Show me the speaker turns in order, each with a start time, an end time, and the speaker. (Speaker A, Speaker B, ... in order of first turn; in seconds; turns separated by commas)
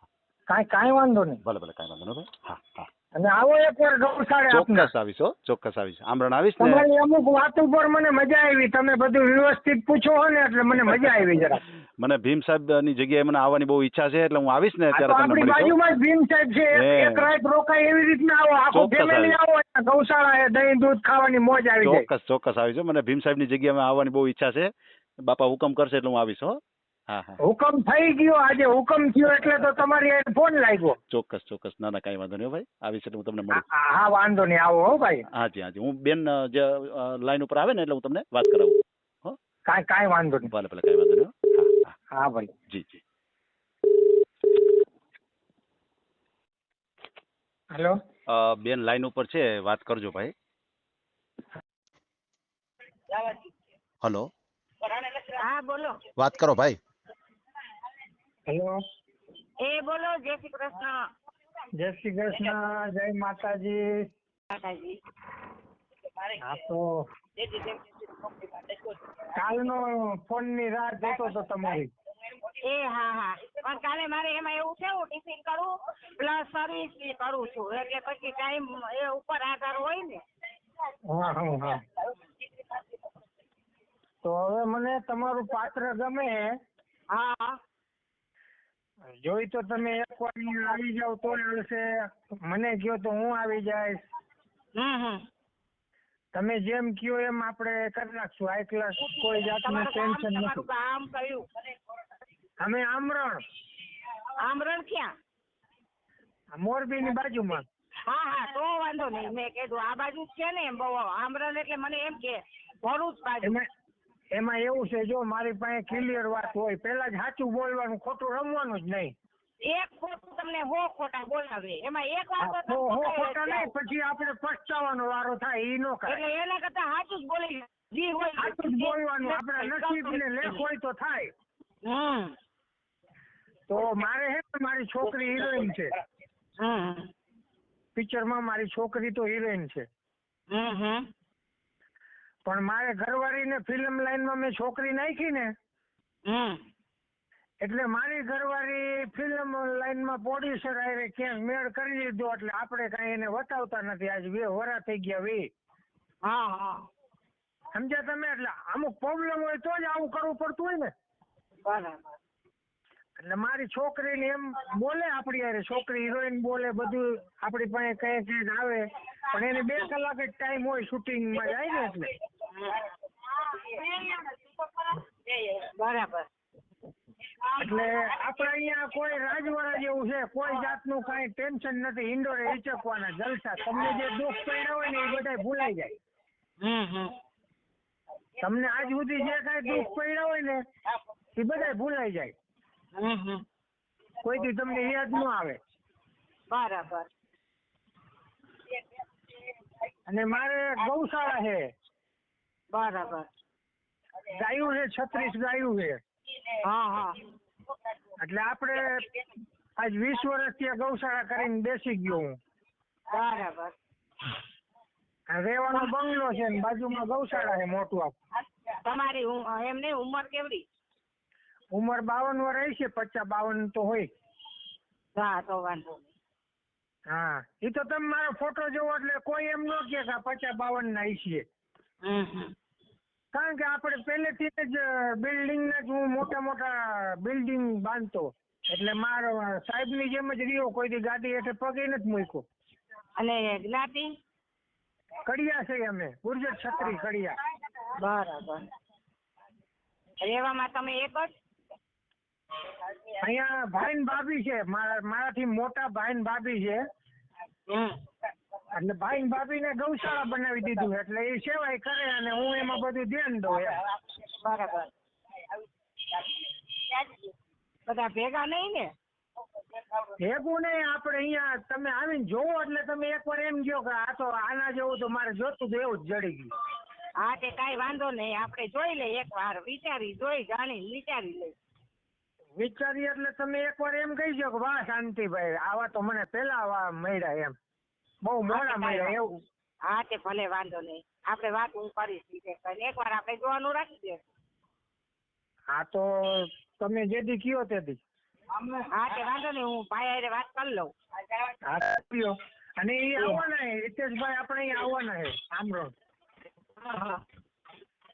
Speaker A: 0.5-1.4, Speaker B: 1.4-2.9, Speaker A: 3.1-4.9, Speaker B: 4.5-6.8, Speaker A: 6.6-11.6, Speaker B: 12.0-15.7, Speaker A: 14.9-22.1, Speaker B: 16.7-17.3, Speaker B: 18.7-19.4, Speaker B: 21.8-27.4, Speaker A: 27.4-30.9, Speaker B: 31.1-33.6, Speaker A: 33.5-35.2, Speaker B: 35.3-39.4, Speaker A: 39.6-40.5, Speaker B: 40.4-41.9, Speaker A: 42.1-42.5, Speaker B: 42.7-43.0, Speaker B: 48.3-50.3, Speaker B: 54.0-54.3, Speaker C: 55.0-56.0, Speaker B: 56.2-56.8, Speaker A: 58.5-58.8, Speaker C: 59.6-61.0, Speaker A: 61.8-64.1, Speaker C: 64.5-65.0, Speaker A: 66.4-67.0, Speaker A: 69.3-71.9, Speaker C: 72.6-80.2, Speaker A: 81.1-81.8, Speaker A: 84.2-86.5, Speaker C: 87.1-87.6, Speaker A: 89.2-94.0, Speaker C: 94.7-95.2, Speaker A: 96.3-100.6, Speaker C: 99.0-101.4, Speaker A: 102.6-103.4, Speaker C: 104.4-105.1, Speaker A: 106.6-107.6, Speaker C: 108.1-113.6, Speaker A: 114.3-119.1, Speaker C: 119.7-123.7, Speaker A: 122.4-126.2, Speaker C: 126.1-130.6, Speaker A: 128.4-131.3, Speaker C: 131.8-132.3, Speaker A: 133.7-135.9, Speaker C: 136.6-137.1, Speaker A: 137.9-139.8, Speaker C: 140.5-141.1, Speaker A: 142.4-145.5, Speaker C: 146.3-146.6, Speaker A: 147.6-155.5, Speaker C: 156.2-156.9, Speaker A: 157.7-160.9, Speaker C: 161.6-162.0, Speaker A: 163.2-172.1, Speaker C: 172.4-176.3, Speaker C: 177.4-177.8, Speaker A: 177.6-185.9, Speaker C: 186.6-187.2, Speaker A: 188.4-190.6, Speaker A: 191.3-192.3, Speaker C: 192.9-193.4, Speaker A: 194.2-195.6, Speaker C: 196.5-197.1, Speaker A: 200.1-201.6, Speaker C: 202.7-203.3, Speaker A: 204.3-206.0, Speaker C: 206.6-207.2, Speaker A: 208.2-209.1, Speaker A: 209.8-212.3, Speaker C: 213.1-213.7, Speaker A: 215.3-218.1, Speaker C: 218.8-220.6, Speaker A: 221.7-224.1, Speaker C: 225.2-226.0, Speaker A: 227.1-231.4, Speaker C: 232.0-232.5, Speaker A: 233.3-242.4, Speaker C: 243.2-244.1, Speaker A: 245.2-247.4, Speaker C: 248.0-248.6, Speaker C: 250.2-251.3, Speaker A: 253.2-256.8, Speaker C: 257.7-257.9, Speaker A: 258.7-263.8, Speaker C: 264.1-264.9, Speaker C: 267.9-268.9, Speaker A: 270.2-276.5, Speaker C: 277.2-281.5, Speaker A: 282.6-287.5, Speaker A: 288.2-289.4, Speaker C: 288.5-289.2, Speaker C: 289.9-294.2, Speaker A: 295.7-298.0, Speaker C: 298.8-300.9, Speaker A: 301.6-305.9, Speaker C: 306.8-307.2